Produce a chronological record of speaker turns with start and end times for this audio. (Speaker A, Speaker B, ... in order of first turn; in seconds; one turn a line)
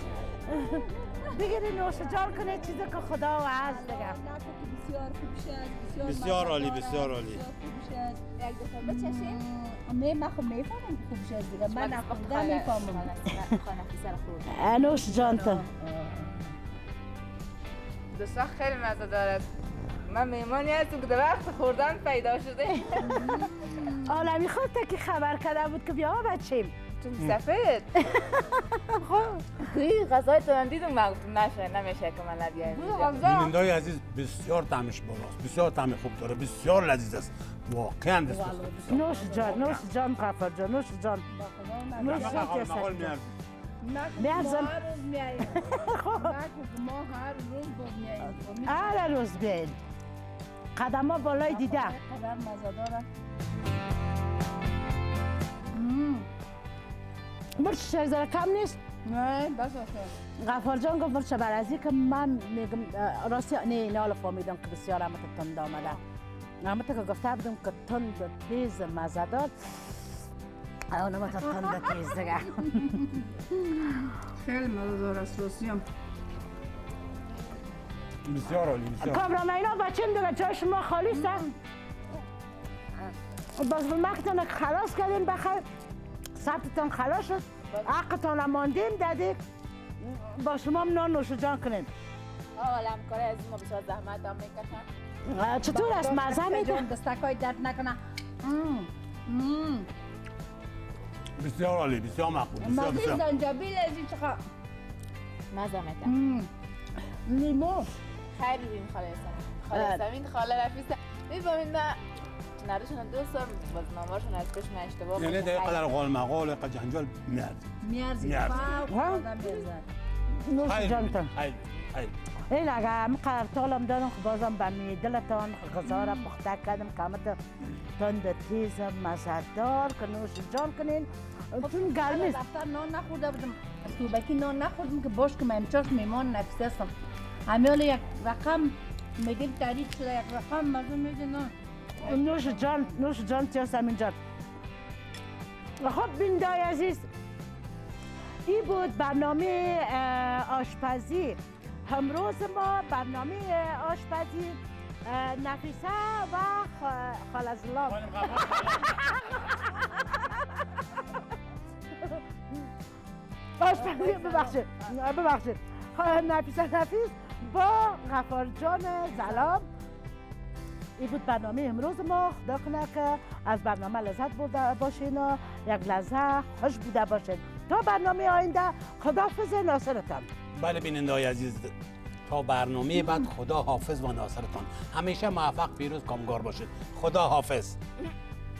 Speaker A: 0.5-4.2
Speaker B: 0.5-3.0
Speaker B: 3.6-8.2
Speaker C: 6.0-7.4
Speaker D: 8.4-9.4
Speaker B: 8.8-13.1
Speaker D: 11.6-14.7
Speaker A: 14.5-15.7
Speaker B: 14.8-16.5
Speaker D: 18.1-19.5
Speaker D: 20.1-23.3
Speaker B: 23.0-24.2
Speaker A: 24.0-26.7
Speaker D: 27.0-28.0
Speaker A: 28.0-29.0
Speaker D: 29.6-33.5
Speaker B: 32.7-33.5
Speaker C: 33.2-39.8
Speaker B: 38.3-39.7
Speaker A: 38.9-41.2
Speaker B: 41.3-42.6
Speaker A: 42.0-43.1
Speaker C: 42.1-43.3
Speaker B: 43.8-49.1
Speaker A: 44.2-44.8
Speaker A: 45.5-46.4
Speaker A: 48.7-49.8
Speaker A: 50.8-52.0
Speaker B: 51.4-53.1
Speaker B: 55.7-56.3
Speaker A: 57.6-58.8
Speaker B: 59.0-60.1
Speaker A: 60.4-66.0
Speaker A: 66.6-69.5
Speaker A: 70.9-73.0
Speaker B: 71.5-72.0
Speaker B: 72.6-75.8
Speaker C: 78.2-79.2
Speaker A: 79.0-81.4
Speaker B: 81.2-81.5
Speaker A: 83.6-85.6
Speaker A: 86.4-89.4
Speaker A: 90.0-91.9
Speaker D: 92.6-94.9
Speaker A: 95.3-96.8
Speaker B: 95.7-99.9
Speaker C: 101.4-103.2
Speaker B: 102.6-104.4
Speaker D: 105.5-106.1
Speaker B: 106.0-106.5
Speaker B: 107.3-107.9
Speaker D: 108.3-112.0
Speaker A: 109.7-110.0
Speaker D: 112.6-115.9
Speaker C: 115.2-117.7
Speaker B: 117.8-119.9
Speaker C: 118.2-118.7
Speaker A: 118.9-119.3
Speaker A: 120.3-121.3
Speaker C: 120.6-122.1
Speaker A: 122.5-127.4
Speaker B: 125.9-126.2
Speaker A: 128.0-132.4
Speaker B: 131.6-136.9
Speaker B: 137.5-141.5
Speaker A: 142.0-144.2
Speaker B: 142.1-142.9
Speaker A: 145.8-147.1
Speaker A: 148.5-160.8
Speaker C: 157.9-159.1
Speaker A: 161.9-162.7
Speaker A: 163.6-169.7
Speaker B: 163.8-164.6
Speaker B: 169.2-169.6
Speaker A: 171.0-180.3
Speaker C: 180.6-181.7
Speaker C: 182.3-187.8